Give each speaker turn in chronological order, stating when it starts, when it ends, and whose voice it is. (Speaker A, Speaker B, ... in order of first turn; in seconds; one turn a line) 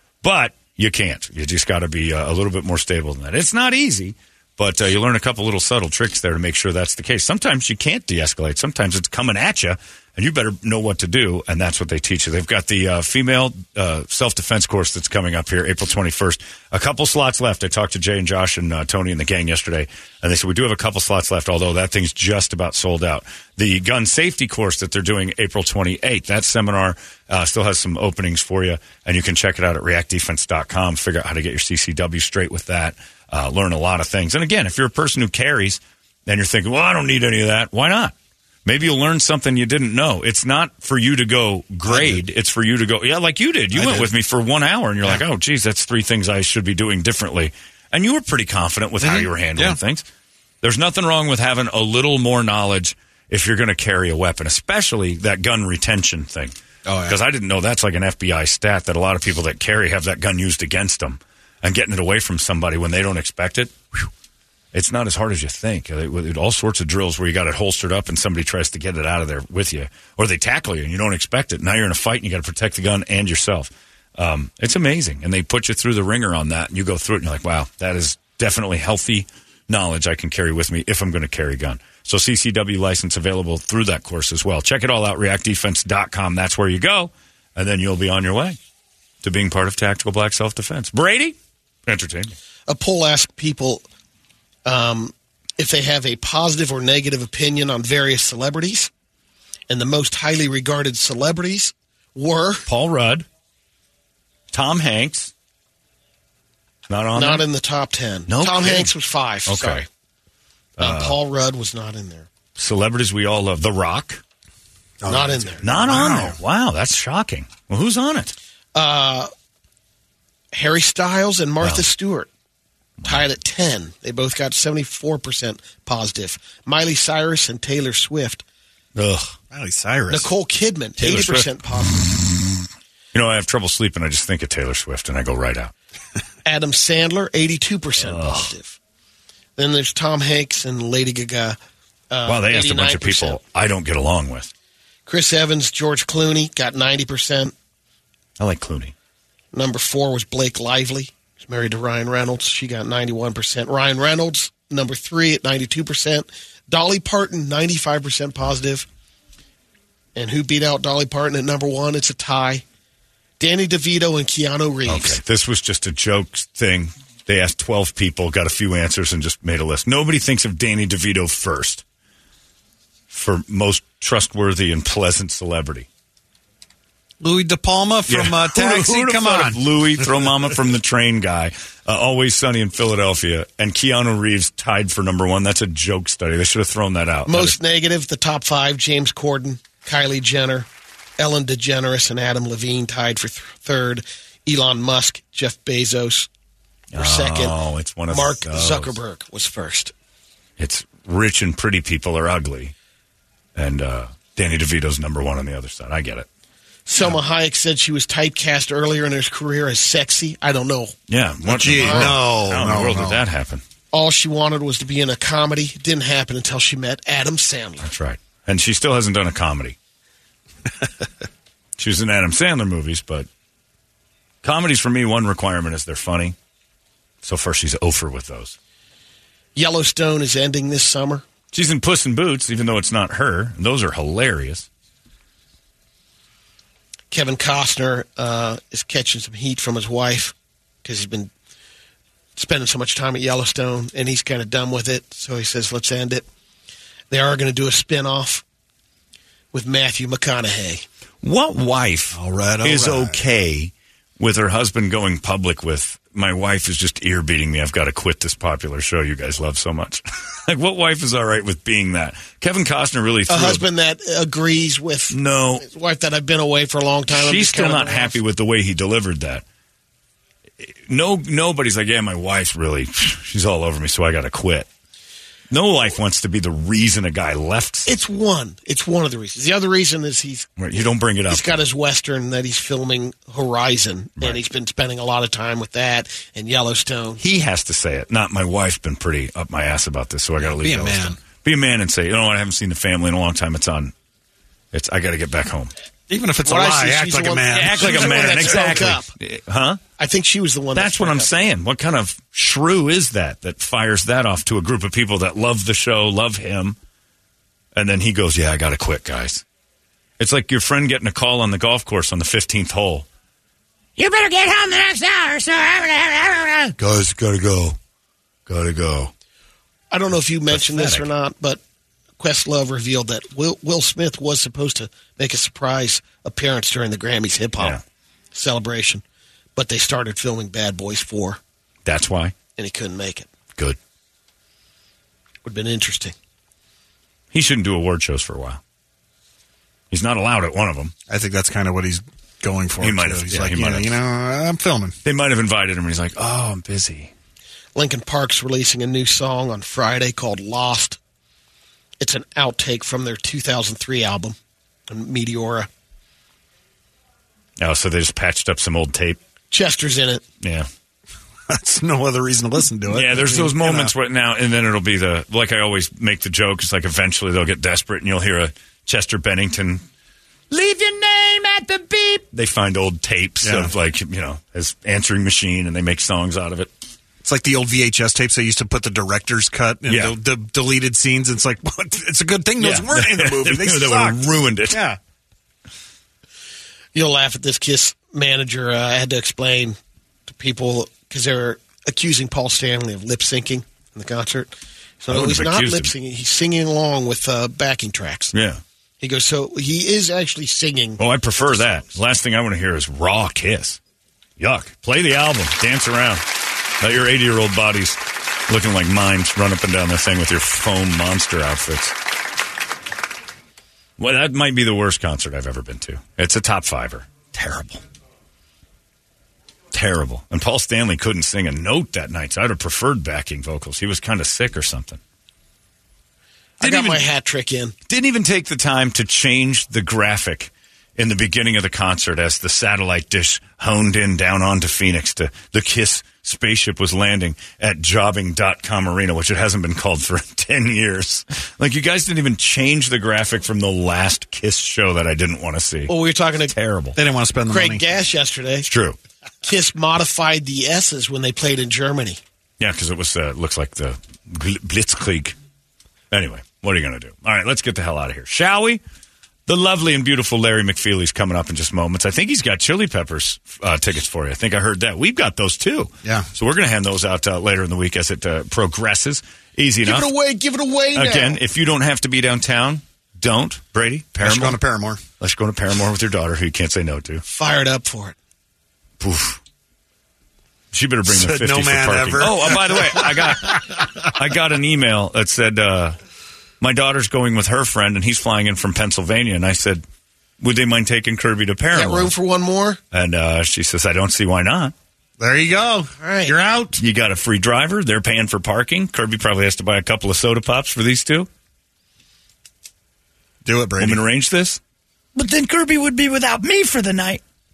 Speaker A: 0.2-38.1
Speaker A: 38.6-50.1
Speaker B: 41.9-42.2
Speaker B: 43.7-44.1
Speaker B: 49.0-49.8
Speaker A: 50.6-56.5
Speaker B: 56.9-57.2
Speaker A: 57.1-64.1
Speaker A: 64.7-88.6
Speaker A: 89.2-91.3
Speaker A: 91.9-92.3
Speaker C: 92.7-93.8
Speaker C: 94.7-98.9
Speaker C: 99.7-102.7
Speaker A: 102.7-103.3
Speaker A: 104.5-105.3
Speaker A: 106.9-107.4
Speaker C: 107.2-109.8
Speaker A: 108.3-108.9
Speaker A: 109.5-109.8
Speaker A: 110.8-111.2
Speaker C: 110.8-112.3
Speaker A: 112.6-114.2
Speaker B: 115.0-116.4
Speaker C: 115.1-115.7
Speaker A: 115.6-118.3
Speaker C: 118.8-119.3
Speaker C: 120.5-122.3
Speaker C: 123.0-128.4
Speaker A: 129.0-129.3
Speaker B: 129.5-130.3
Speaker C: 130.1-132.1
Speaker A: 131.0-131.5
Speaker A: 133.1-135.7
Speaker C: 136.5-138.8
Speaker A: 138.0-138.5
Speaker C: 139.6-141.6
Speaker C: 142.1-143.4
Speaker A: 142.3-144.5
Speaker C: 145.1-147.5
Speaker A: 148.4-148.9
Speaker C: 149.5-158.9
Speaker C: 160.2-162.6
Speaker C: 163.4-165.2
Speaker A: 164.9-171.8
Speaker A: 173.1-175.9
Speaker B: 177.2-179.6
Speaker A: 178.1-187.6
Speaker C: 187.3-190.7
Speaker C: 191.2-196.3
Speaker A: 196.9-199.0
Speaker C: 196.9-199.9
Speaker A: 200.6-202.7
Speaker A: 203.6-206.3
Speaker C: 206.9-210.9
Speaker A: 211.1-213.6
Speaker C: 211.5-212.2
Speaker B: 211.5-213.2
Speaker C: 213.9-217.9
Speaker A: 217.8-219.8
Speaker A: 221.8-223.3
Speaker A: 224.4-226.4
Speaker A: 227.2-228.6
Speaker C: 229.6-231.2
Speaker A: 231.5-234.7
Speaker C: 237.1-241.3
Speaker C: 242.4-246.3
Speaker C: 247.1-248.4
Speaker C: 249.5-250.8
Speaker A: 251.2-263.6
Speaker B: 252.1-253.2
Speaker C: 263.3-268.2
Speaker A: 265.1-265.6
Speaker A: 267.1-269.4
Speaker A: 270.6-274.7
Speaker A: 275.5-277.9
Speaker C: 277.9-280.5
Speaker A: 280.6-281.6
Speaker C: 281.3-287.2
Speaker A: 287.2-293.9
Speaker B: 290.4-291.2
Speaker A: 294.7-295.7
Speaker B: 296.1-298.3
Speaker C: 296.4-299.1
Speaker A: 297.5-299.8
Speaker C: 300.0-301.5
Speaker A: 300.7-306.8
Speaker A: 307.8-309.4
Speaker A: 310.2-313.1
Speaker A: 314.0-317.8
Speaker A: 318.5-319.1
Speaker C: 319.9-321.6
Speaker A: 320.5-321.1
Speaker C: 322.2-327.8
Speaker C: 328.3-329.0
Speaker C: 329.6-331.4
Speaker A: 331.9-332.4
Speaker C: 332.6-333.3
Speaker C: 335.4-336.1
Speaker A: 337.3-338.6
Speaker A: 339.9-340.9
Speaker B: 341.1-345.0
Speaker A: 342.8-343.9
Speaker A: 345.0-347.1
Speaker C: 347.8-351.0
Speaker C: 352.0-354.4
Speaker C: 354.9-355.7
Speaker A: 357.6-359.2
Speaker C: 359.5-360.2
Speaker A: 360.4-360.7
Speaker B: 361.5-363.9
Speaker A: 362.9-369.8
Speaker A: 370.5-376.7
Speaker B: 373.4-373.7
Speaker B: 377.2-385.0
Speaker A: 379.9-380.2
Speaker A: 382.6-384.8
Speaker C: 386.9-389.8
Speaker C: 390.3-398.3
Speaker A: 395.1-395.9
Speaker A: 398.3-398.6
Speaker C: 399.0-401.0
Speaker A: 401.0-403.8
Speaker A: 404.4-406.2
Speaker A: 406.8-412.0
Speaker A: 414.0-417.8
Speaker A: 419.7-425.0
Speaker C: 426.6-427.8
Speaker A: 426.6-427.0
Speaker A: 427.9-445.9
Speaker C: 445.9-446.6
Speaker A: 446.5-447.0
Speaker B: 446.9-447.8
Speaker C: 447.5-448.7
Speaker A: 448.7-449.0
Speaker C: 449.4-452.2
Speaker A: 452.6-455.4
Speaker A: 456.1-458.8
Speaker A: 459.5-470.1
Speaker C: 469.8-471.4
Speaker A: 470.9-474.6
Speaker B: 474.2-475.0
Speaker A: 475.2-477.2
Speaker C: 477.2-478.1
Speaker A: 479.0-479.4
Speaker A: 480.7-486.0
Speaker B: 481.1-483.2
Speaker A: 486.6-489.8
Speaker A: 490.4-492.1
Speaker C: 491.7-492.8
Speaker A: 492.9-494.7
Speaker B: 495.2-496.8
Speaker C: 496.0-496.4
Speaker A: 496.8-501.3
Speaker B: 503.4-504.0
Speaker A: 503.8-504.6
Speaker A: 505.1-507.2